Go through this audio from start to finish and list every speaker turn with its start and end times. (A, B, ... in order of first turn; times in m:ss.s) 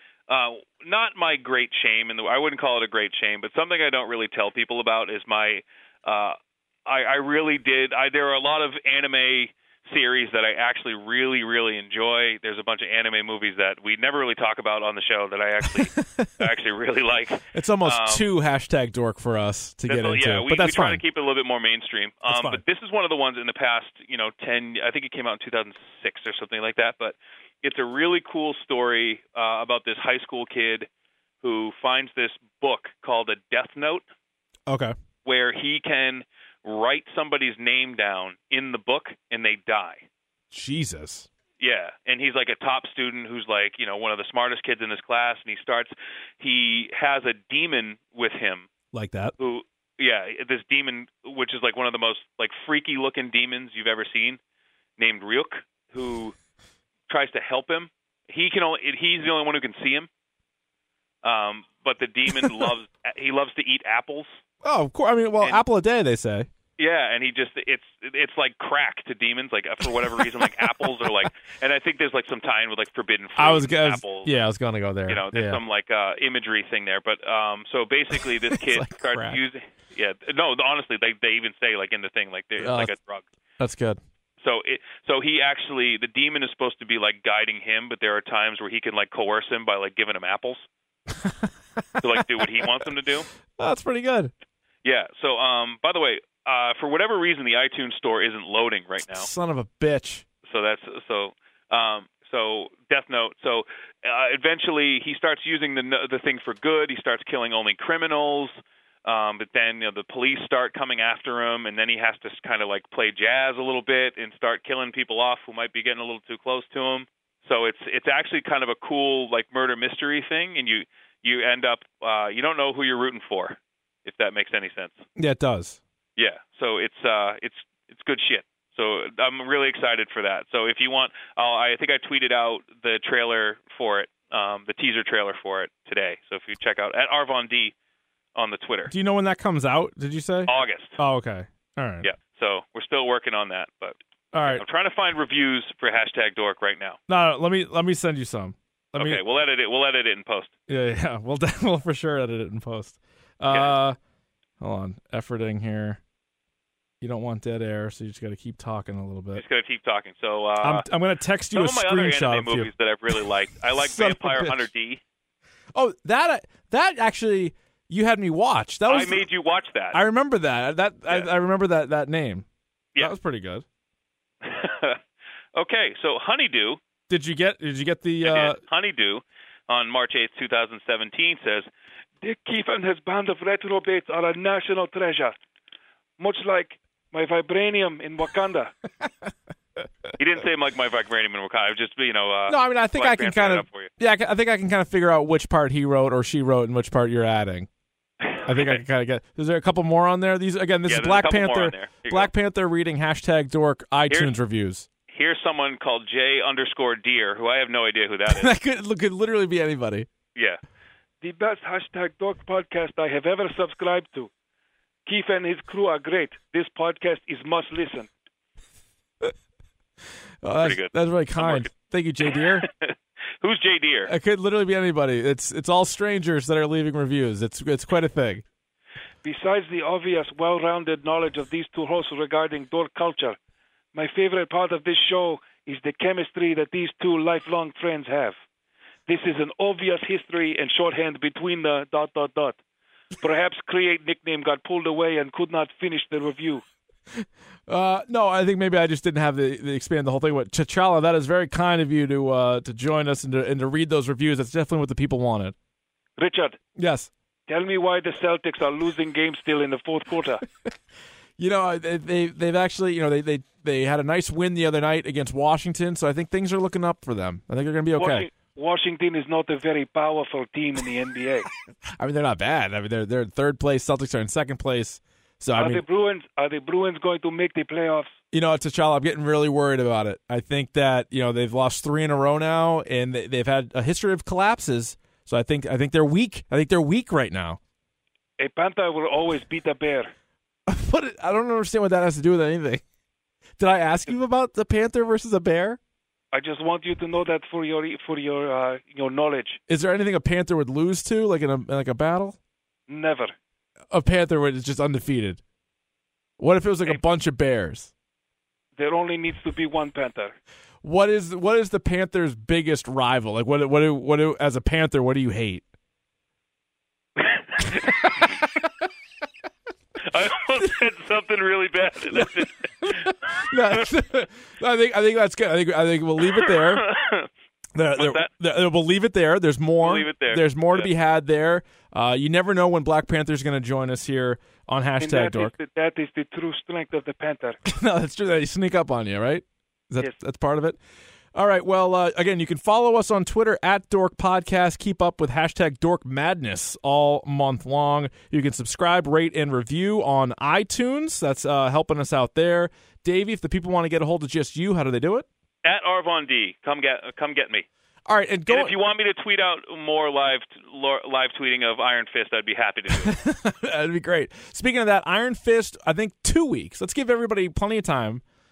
0:00.3-0:18.2 A
0:16.0-0:16.3 B
0:17.5-0:21.0 B
0:19.8-0:30.9 A
0:22.3-0:22.6 B
0:31.4-0:34.0 A
0:34.7-0:34.9 B
0:35.2-0:40.0 A
0:40.5-0:41.3 B
0:41.6-0:48.7 A
0:48.9-0:49.3 B
0:49.4-0:54.4 A
0:55.0-0:56.4 A
0:57.1-1:00.1 A
1:01.2-1:04.4 A
1:04.6-1:06.5 B
1:06.8-1:14.3 A
1:10.2-1:10.6 B
1:13.4-1:15.6 B
1:15.1-1:23.2 A
1:18.1-1:19.4 B
1:22.6-1:22.9 B
1:23.6-1:24.0 B
1:24.4-1:30.6 A
1:31.2-1:32.6 B
1:32.0-1:33.3 A
1:33.6-1:34.3 B
1:34.8-1:39.3 A
1:39.1-1:40.2 B
1:40.4-2:05.0 A
2:05.2-2:05.8 B
2:06.2-2:17.7 A
2:18.3-2:18.9 A
2:18.9-2:22.1 B
2:20.4-2:21.0 A
2:22.0-2:27.0 A
2:24.3-2:24.6 B
2:27.1-2:29.2 B
2:28.9-2:30.5 A
2:30.7-2:34.0 B
2:33.5-2:33.8 A
2:34.6-2:36.0 B
2:37.0-2:39.4 B
2:39.3-2:40.8 A
2:40.6-2:42.7 B
2:41.5-2:45.0 A
2:43.8-2:44.6 B
2:45.7-2:49.3 B
2:48.9-2:50.0 A
2:49.9-2:52.4 B
2:53.0-2:53.6 B
2:54.4-2:55.0 A
2:55.5-2:56.8 A
2:57.1-2:58.6 B
2:58.2-3:01.7 A
3:02.2-3:05.3 C
3:06.2-3:08.7 C
3:10.2-3:13.9 A
3:12.5-3:17.7 B
3:18.2-3:18.8 A
3:18.4-3:24.9 B
3:20.9-3:22.3 A
3:25.1-3:28.5 A
3:28.3-3:30.1 B
3:31.2-3:34.3 C
3:35.0-3:38.1 C
3:40.4-3:42.7 B
3:40.6-3:41.7 A
3:42.4-3:44.1 A
3:44.1-3:48.4 B
3:49.2-3:53.4 C
3:53.9-3:58.3 C
3:59.1-4:02.6 C
4:03.2-4:06.6 C
4:07.1-4:15.5 B
4:16.2-4:16.6 C
4:16.8-4:17.1 B
4:17.5-4:20.4 C
4:21.4-4:28.3 B
4:28.0-4:31.5 C
4:32.0-4:35.8 B
4:35.6-4:38.1 C
4:38.3-4:47.6 B
4:48.4-4:50.1 C
4:50.7-4:52.8 B
4:53.6-4:55.8 B
4:56.3-4:59.6 C
4:59.7-5:02.4 B
5:02.9-5:03.3 C
5:03.9-5:05.4 B
5:06.4-5:07.9 B
5:08.8-5:10.3 C
5:10.8-5:15.6 B
5:17.2-5:18.2 A
5:20.1-5:23.8 A
5:22.8-5:26.9 B
5:26.5-5:27.3 A
5:27.7-5:35.5 B
5:27.9-5:28.3 A
5:29.8-5:30.9 A
5:35.0-5:37.6 C
5:37.6-5:40.8 B
5:41.3-5:55.2 B
5:55.6-5:57.6 A
5:58.1-5:58.8 B
5:58.5-6:03.2 A
6:02.9-6:08.2 B